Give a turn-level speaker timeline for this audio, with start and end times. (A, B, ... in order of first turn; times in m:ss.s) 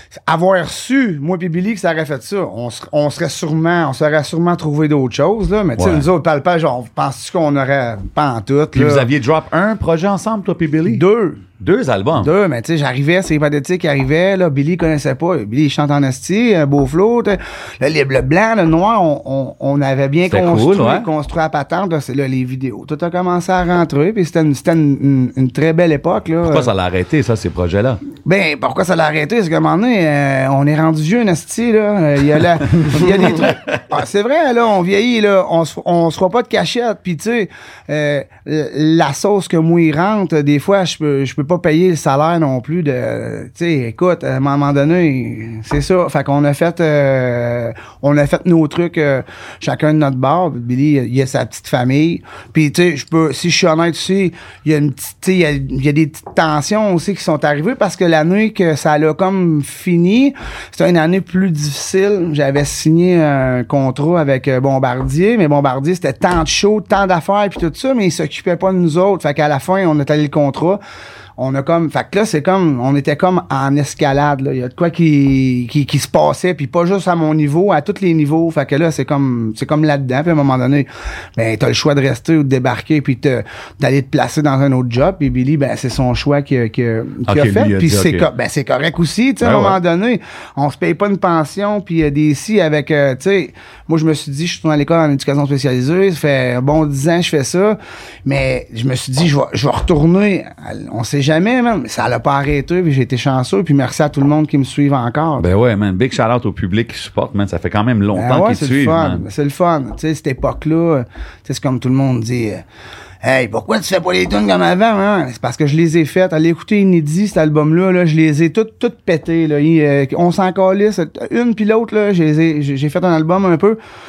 0:00.3-0:09.1 A
0:05.8-0:06.1 B
0:08.7-0:11.0 B
0:10.9-0:11.4 A
0:11.6-0:12.3 B
0:12.2-0:26.7 A
0:20.3-0:21.1 B
0:26.4-0:28.0 B
0:28.2-1:10.8 A
0:32.9-0:33.6 B
1:11.4-1:45.5 A
1:27.3-1:28.3 B
1:29.4-1:29.8 B
1:45.4-1:49.2 B
1:48.1-1:52.6 A
1:53.2-2:03.8 A